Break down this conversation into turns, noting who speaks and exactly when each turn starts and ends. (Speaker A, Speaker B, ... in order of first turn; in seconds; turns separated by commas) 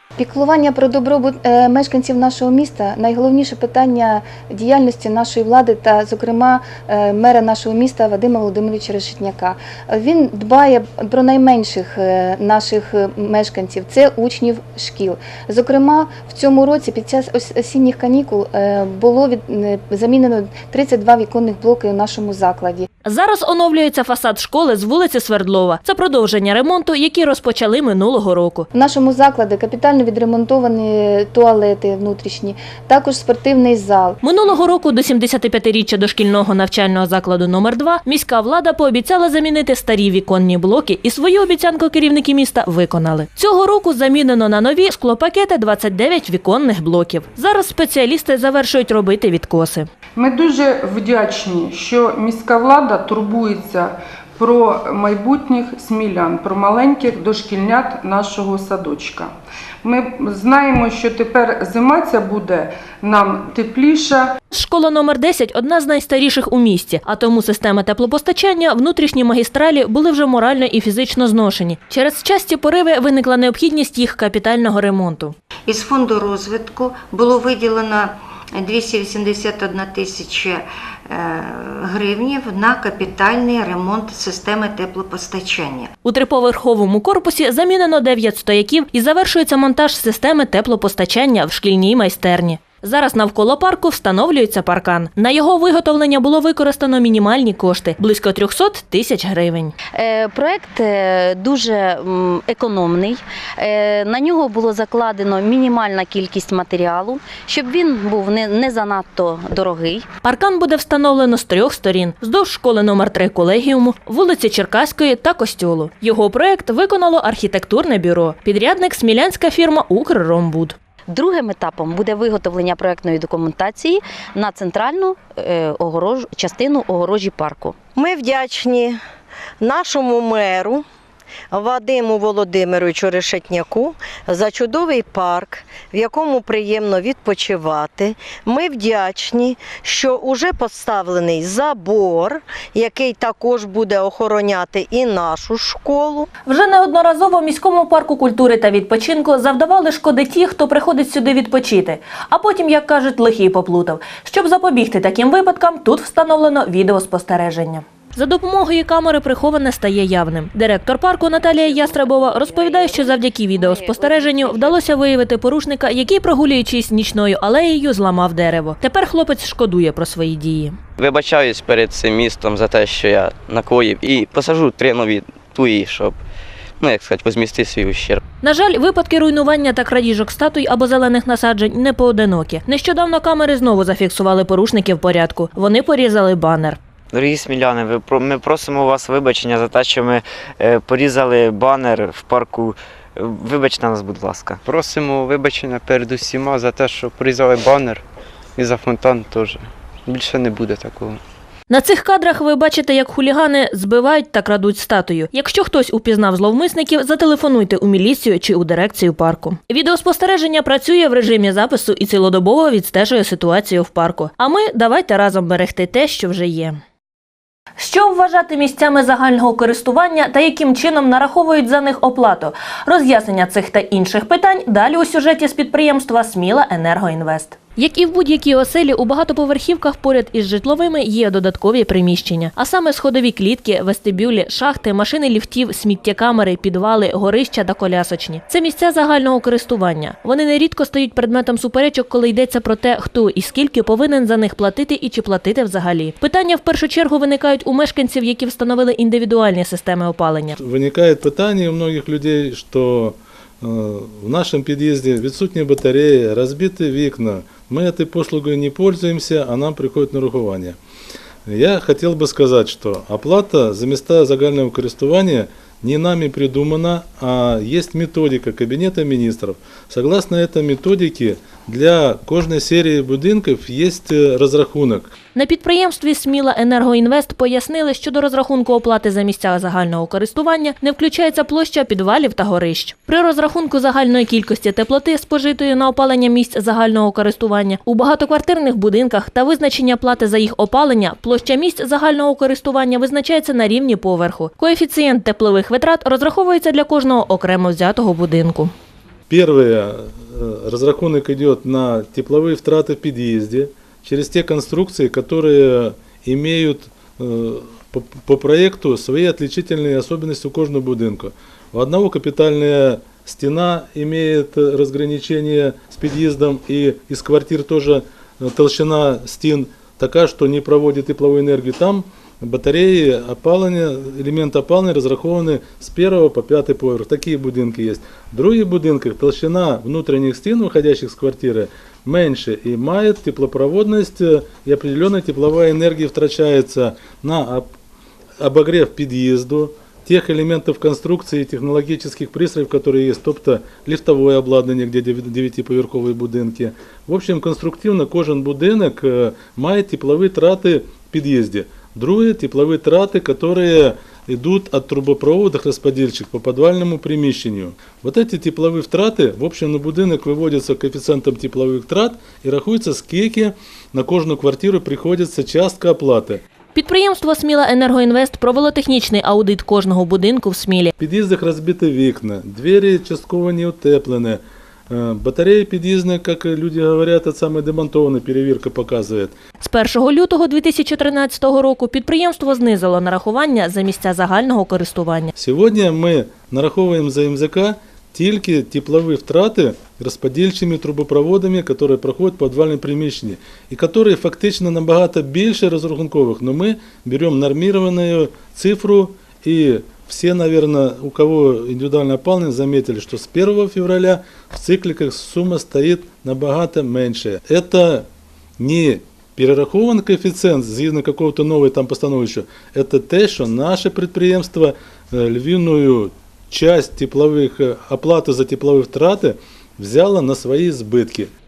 Speaker A: 0.2-22.9, Speaker B: 23.0-28.7, Speaker A: 28.7-34.2, Speaker B: 34.2-49.9, Speaker C: 50.2-59.3, Speaker C: 59.8-64.3, Speaker B: 64.5-75.3, Speaker D: 75.7-85.9, Speaker B: 86.0-99.7, Speaker E: 99.9-110.0, Speaker B: 110.2-120.8, Speaker E: 121.1-127.8, Speaker F: 128.0-129.0, Speaker F: 129.6-130.8, Speaker F: 131.5-146.3, Speaker B: 146.5-170.8, Speaker E: 161.4-164.8, Speaker G: 171.0-176.2, Speaker G: 176.8-178.2, Speaker B: 178.4-186.8, Speaker H: 187.1-194.6, Speaker I: 194.6-198.0, Speaker I: 198.6-201.2, Speaker B: 201.7-216.8, Speaker B: 217.8-250.5, Speaker J: 250.6-260.8, Speaker J: 261.5-275.1, Speaker B: 275.3-298.7, Speaker J: 299.3-337.7, Speaker J: 338.4-366.4, Speaker B: 366.7-370.9, Speaker J: 371.0-379.3, Speaker B: 379.6-385.3, Speaker J: 385.3-408.1, Speaker J: 408.6-421.3